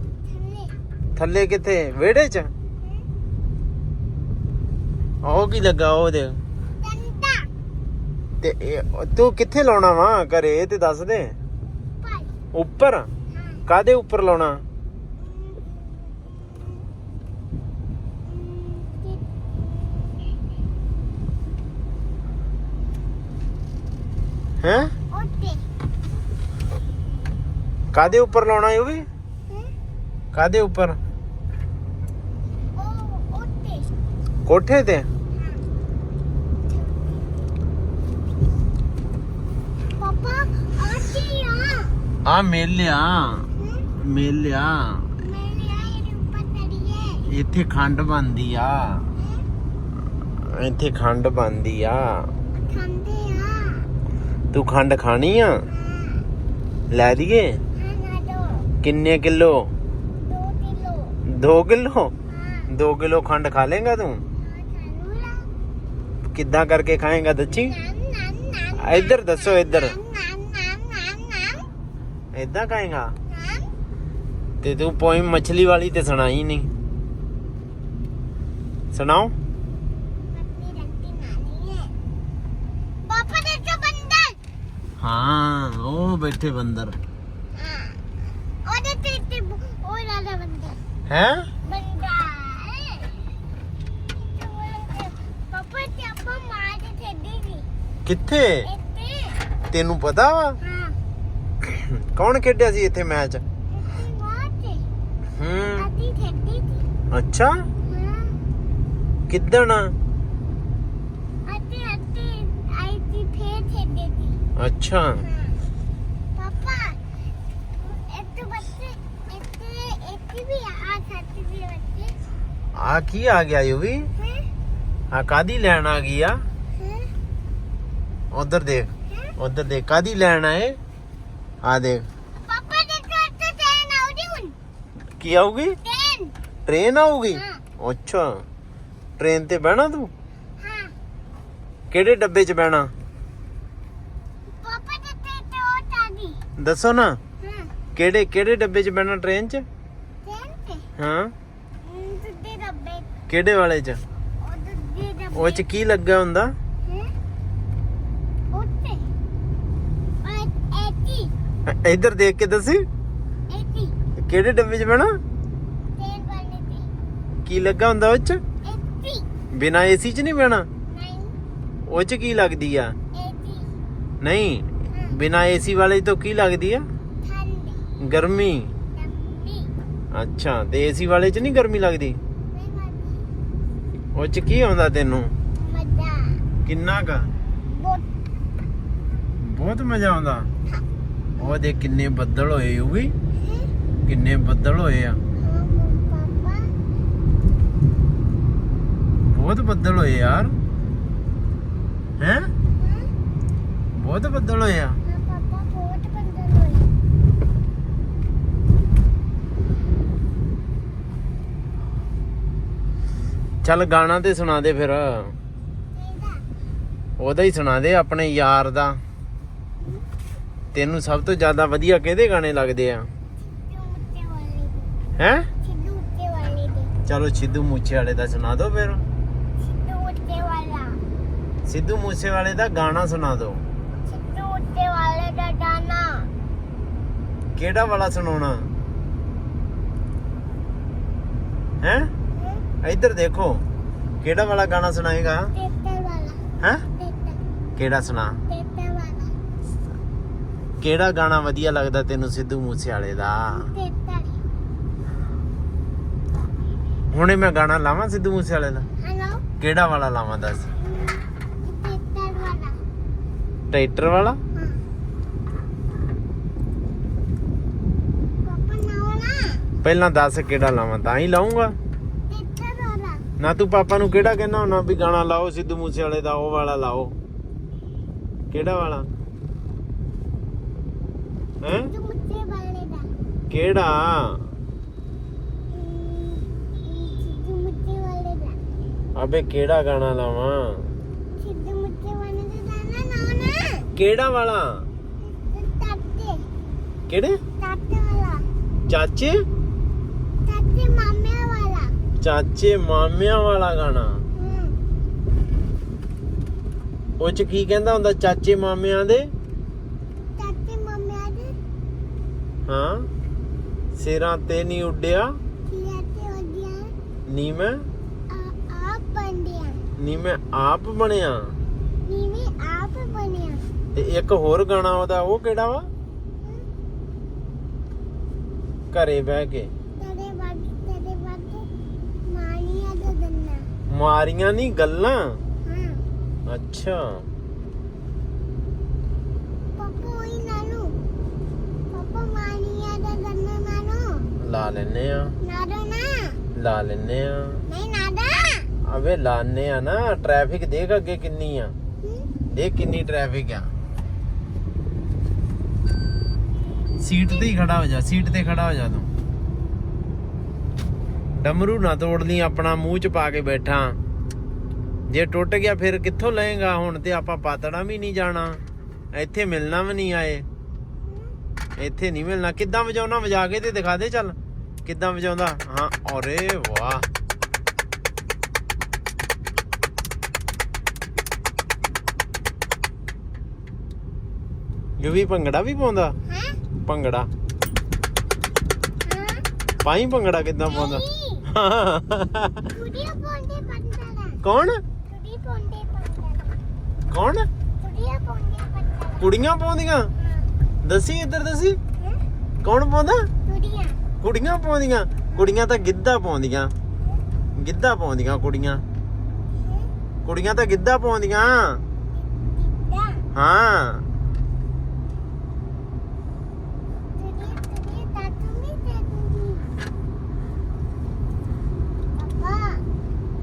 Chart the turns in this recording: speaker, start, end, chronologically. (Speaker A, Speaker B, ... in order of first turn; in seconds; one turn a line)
Speaker A: 0.2-0.8
Speaker B: 1.1-2.5
Speaker B: 5.2-6.4
Speaker A: 6.8-7.5
Speaker B: 8.4-11.3
Speaker A: 12.0-12.3
Speaker B: 12.5-13.1
Speaker A: 13.3-13.6
Speaker B: 13.7-14.6
Speaker A: 15.2-16.8
Speaker A: 18.2-19.2
Speaker A: 19.7-20.1
Speaker B: 24.6-24.9
Speaker A: 25.1-25.6
Speaker B: 27.9-29.1
Speaker B: 30.3-31.0
Speaker A: 32.8-33.9
Speaker B: 34.5-35.1
Speaker A: 35.4-35.6
Speaker A: 36.6-37.4
Speaker A: 40.0-41.9
Speaker B: 42.2-45.1
Speaker A: 43.6-43.9
Speaker A: 45.2-47.3
Speaker B: 47.3-49.1
Speaker A: 49.2-49.5
Speaker B: 50.5-52.3
Speaker A: 52.5-53.9
Speaker B: 54.5-55.5
Speaker A: 55.7-56.2
Speaker B: 56.9-57.6
Speaker A: 57.8-58.7
Speaker B: 58.8-59.7
Speaker A: 60.2-61.1
Speaker B: 61.3-62.1
Speaker A: 62.3-62.7
Speaker B: 62.7-64.2
Speaker A: 64.4-65.5
Speaker B: 66.3-67.7
Speaker A: 67.5-71.7
Speaker B: 68.8-70.0
Speaker B: 72.3-73.1
Speaker A: 73.3-73.7
Speaker B: 74.6-76.7
Speaker B: 78.9-79.3
Speaker A: 80.3-81.9
Speaker A: 83.0-84.4
Speaker B: 85.0-87.0
Speaker A: 87.6-88.0
Speaker A: 88.6-90.8
Speaker B: 91.1-91.5
Speaker A: 91.6-93.1
Speaker A: 94.0-97.7
Speaker B: 98.0-98.7
Speaker A: 98.6-99.4
Speaker B: 99.7-100.6
Speaker A: 100.6-101.0
Speaker B: 101.6-103.4
Speaker A: 103.7-104.8
Speaker B: 105.4-105.9
Speaker A: 105.8-106.9
Speaker B: 107.1-107.5
Speaker A: 107.8-108.4
Speaker B: 109.3-109.9
Speaker A: 111.5-114.4
Speaker B: 114.6-115.2
Speaker A: 115.2-115.6
Speaker A: 116.3-117.0
Speaker A: 117.8-122.1
Speaker B: 122.8-124.1
Speaker A: 124.2-124.5
Speaker B: 125.1-126.4
Speaker A: 126.8-127.1
Speaker B: 128.3-130.8
Speaker B: 131.6-132.1
Speaker A: 132.4-134.6
Speaker B: 135.2-135.8
Speaker A: 135.8-136.3
Speaker B: 136.7-138.4
Speaker A: 137.3-137.6
Speaker B: 139.2-140.1
Speaker A: 140.6-140.9
Speaker B: 141.9-142.9
Speaker A: 144.6-146.4
Speaker B: 146.6-147.2
Speaker A: 147.4-147.7
Speaker B: 147.9-149.6
Speaker A: 150.2-150.9
Speaker B: 151.0-151.3
Speaker A: 151.8-153.1
Speaker B: 153.3-154.0
Speaker A: 154.4-155.6
Speaker B: 155.3-156.5
Speaker A: 156.8-157.1
Speaker A: 158.5-159.1
Speaker A: 160.2-161.3
Speaker B: 161.7-162.8
Speaker A: 163.5-164.0
Speaker B: 164.2-165.2
Speaker A: 165.9-166.9
Speaker B: 167.4-168.4
Speaker A: 168.6-169.3
Speaker B: 169.5-170.7
Speaker A: 170.9-171.3
Speaker B: 171.9-172.9
Speaker A: 173.1-173.8
Speaker B: 174.2-176.8
Speaker A: 174.9-175.2
Speaker A: 177.2-177.9
Speaker B: 178.0-178.7
Speaker A: 178.9-179.7
Speaker B: 180.1-182.2
Speaker A: 182.5-183.3
Speaker B: 184.1-185.3
Speaker A: 185.5-186.4
Speaker B: 186.7-187.3
Speaker A: 187.7-188.0
Speaker B: 189.4-190.5
Speaker B: 191.4-193.1
Speaker A: 193.4-193.7
Speaker B: 194.1-195.2
Speaker A: 195.4-196.7
Speaker B: 199.3-200.5
Speaker B: 202.2-202.5
Speaker A: 202.8-203.1
Speaker B: 204.0-205.0
Speaker A: 205.0-206.9
Speaker B: 213.6-215.3
Speaker A: 215.9-216.4
Speaker B: 217.2-219.0
Speaker B: 220.7-223.1
Speaker A: 223.6-224.9
Speaker B: 225.2-225.5
Speaker A: 225.6-226.9
Speaker B: 227.1-229.0
Speaker A: 229.6-231.0
Speaker B: 231.7-233.6
Speaker A: 234.0-236.3
Speaker B: 237.6-238.7
Speaker B: 241.8-242.1
Speaker A: 242.3-242.6
Speaker B: 242.8-243.6
Speaker B: 244.2-245.5
Speaker A: 245.5-246.4
Speaker A: 247.0-247.4
Speaker B: 247.8-248.4
Speaker A: 248.5-249.3
Speaker B: 250.8-253.7
Speaker A: 253.5-254.4
Speaker B: 257.1-258.9
Speaker A: 259.0-259.4
Speaker B: 259.6-260.7
Speaker A: 260.8-262.8
Speaker B: 263.7-264.4
Speaker A: 264.5-264.8
Speaker A: 268.4-269.7
Speaker B: 269.8-271.8
Speaker A: 272.3-273.2
Speaker B: 273.4-277.1
Speaker B: 278.5-279.1
Speaker B: 281.6-281.9
Speaker A: 281.7-283.1
Speaker B: 283.5-284.4
Speaker A: 285.7-288.6
Speaker B: 289.1-290.9
Speaker A: 291.4-293.9
Speaker B: 293.9-294.9
Speaker A: 295.2-296.4
Speaker B: 297.1-297.4
Speaker A: 297.6-298.5
Speaker B: 298.9-299.4
Speaker A: 300.4-301.9
Speaker B: 302.2-304.2
Speaker A: 304.4-304.8
Speaker B: 307.2-309.3
Speaker A: 310.2-311.6
Speaker B: 312.7-313.1
Speaker B: 314.0-315.4
Speaker A: 315.7-316.9
Speaker B: 317.3-317.8
Speaker A: 318.3-319.8
Speaker B: 320.0-321.6
Speaker A: 322.0-323.6
Speaker B: 323.9-325.9
Speaker B: 328.9-329.7
Speaker A: 330.0-331.7
Speaker A: 332.3-333.7
Speaker B: 333.9-335.4
Speaker A: 335.6-336.0
Speaker B: 336.5-337.2
Speaker A: 339.8-340.9
Speaker A: 341.9-344.3
Speaker B: 344.4-345.3
Speaker A: 345.4-346.4
Speaker B: 346.5-347.6
Speaker A: 347.7-348.7
Speaker B: 348.9-351.7
Speaker B: 352.5-353.7
Speaker B: 357.0-359.1
Speaker B: 361.4-364.0
Speaker B: 365.1-368.6
Speaker B: 369.1-370.4
Speaker B: 371.8-377.1
Speaker B: 385.0-386.1
Speaker A: 386.3-386.6
Speaker B: 386.8-387.3
Speaker A: 389.0-389.4
Speaker B: 389.8-392.7
Speaker A: 390.6-391.5
Speaker A: 392.7-394.4
Speaker B: 394.4-394.8
Speaker A: 395.1-396.6
Speaker B: 397.1-397.5
Speaker A: 397.8-399.3
Speaker B: 399.2-400.1
Speaker A: 400.2-400.5
Speaker B: 400.8-401.8
Speaker A: 402.0-402.2
Speaker B: 402.6-403.3
Speaker A: 403.5-404.0
Speaker B: 404.2-406.7
Speaker B: 407.6-408.8
Speaker A: 409.6-409.9
Speaker B: 410.2-411.8
Speaker A: 412.1-413.2
Speaker B: 413.3-414.0
Speaker A: 417.1-419.7
Speaker A: 422.1-422.8